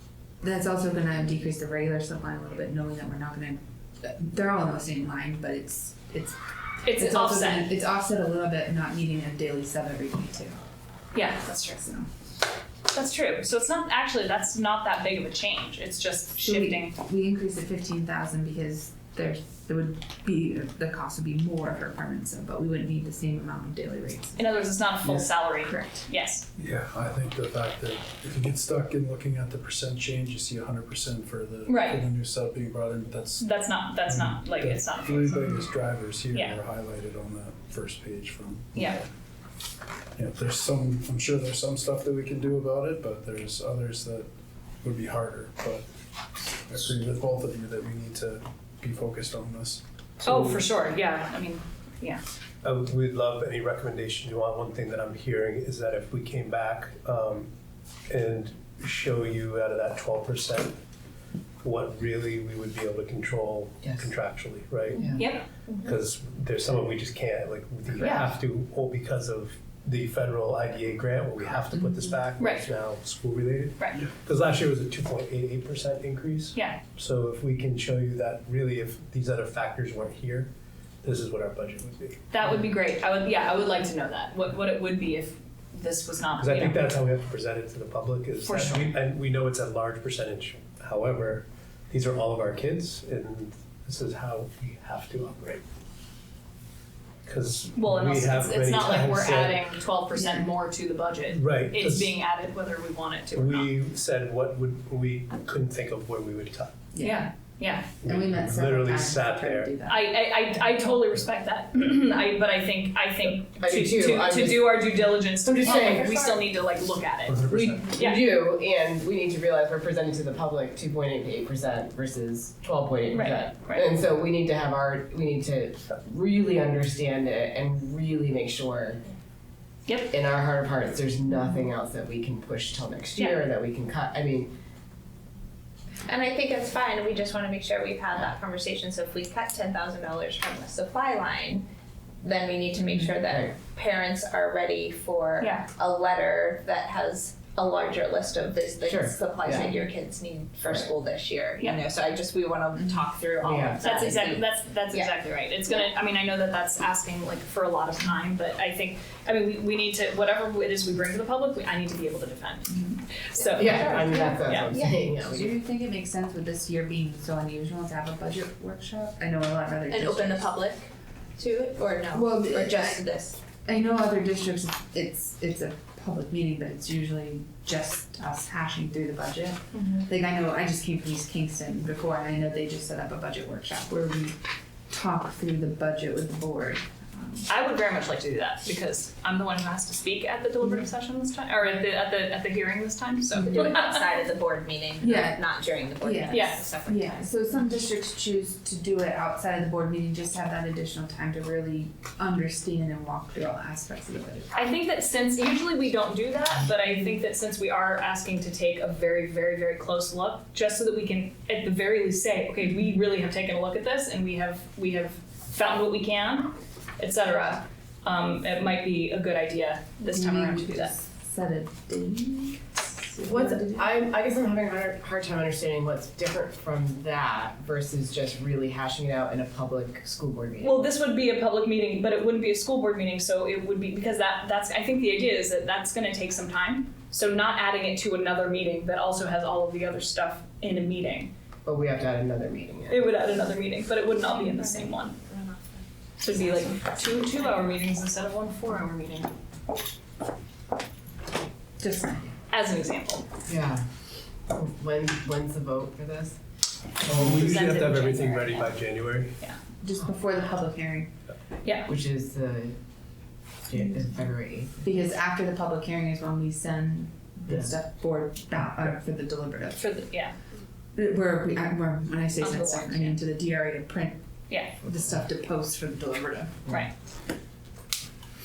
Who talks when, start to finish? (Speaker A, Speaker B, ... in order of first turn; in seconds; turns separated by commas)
Speaker A: 0.4-10.6, Speaker B: 6.8-7.7, Speaker B: 11.1-11.9, Speaker A: 11.5-12.0, Speaker B: 12.9-16.9, Speaker A: 16.4-24.4, Speaker B: 24.4-26.4, Speaker A: 25.6-26.1, Speaker C: 26.6-33.5, Speaker B: 31.6-32.0, Speaker B: 33.4-35.5, Speaker C: 34.1-39.0, Speaker B: 36.3-36.6, Speaker B: 38.8-39.0, Speaker C: 40.1-44.3, Speaker C: 44.8-45.9, Speaker C: 46.4-49.8, Speaker B: 50.2-52.2, Speaker D: 50.2-50.6, Speaker D: 52.6-57.5, Speaker D: 58.1-60.8, Speaker D: 61.6-65.2, Speaker B: 65.2-65.5, Speaker E: 65.7-65.9, Speaker D: 65.8-80.5, Speaker B: 68.0-68.3, Speaker B: 72.4-72.7, Speaker B: 73.8-74.0, Speaker B: 76.5-76.8, Speaker D: 81.0-82.3, Speaker B: 82.3-86.8, Speaker D: 86.4-95.6, Speaker B: 88.4-88.9, Speaker D: 97.2-99.6, Speaker B: 97.7-103.7, Speaker A: 100.1-100.5, Speaker D: 101.3-102.1, Speaker D: 103.3-106.8, Speaker A: 106.9-107.3, Speaker B: 107.0-107.9, Speaker D: 108.0-109.8, Speaker A: 108.0-110.2, Speaker B: 109.9-118.2, Speaker F: 113.5-116.4, Speaker D: 117.3-118.0, Speaker F: 117.5-129.0, Speaker B: 123.1-123.9, Speaker B: 129.9-130.1, Speaker F: 130.1-134.5, Speaker E: 136.1-141.7, Speaker E: 142.2-155.1, Speaker F: 142.9-143.6, Speaker B: 145.4-145.7, Speaker F: 148.8-149.7, Speaker F: 153.4-153.8, Speaker B: 153.8-164.7, Speaker F: 163.6-165.6, Speaker E: 163.6-165.0, Speaker A: 165.1-170.4, Speaker E: 169.9-173.4, Speaker A: 172.1-173.0, Speaker A: 173.6-184.4, Speaker E: 179.7-180.1, Speaker A: 184.9-187.4, Speaker B: 187.5-194.1, Speaker E: 193.3-197.3, Speaker A: 195.0-195.4, Speaker A: 196.0-204.6, Speaker B: 196.3-196.6, Speaker B: 204.5-220.9, Speaker A: 220.1-223.9, Speaker F: 223.2-230.8, Speaker B: 230.6-241.3, Speaker F: 241.6-243.1, Speaker B: 242.9-245.1, Speaker E: 244.2-245.8, Speaker B: 246.2-249.3, Speaker A: 251.8-252.3, Speaker B: 252.5-253.2, Speaker F: 253.5-253.8, Speaker F: 254.5-256.4, Speaker D: 257.1-259.4, Speaker F: 257.1-257.5, Speaker B: 257.3-258.7, Speaker A: 259.8-261.1, Speaker F: 261.9-262.8, Speaker F: 263.7-265.0, Speaker A: 264.8-269.8, Speaker F: 267.5-267.7, Speaker B: 269.8-270.3, Speaker A: 270.9-274.2, Speaker B: 272.4-273.2, Speaker A: 274.8-276.6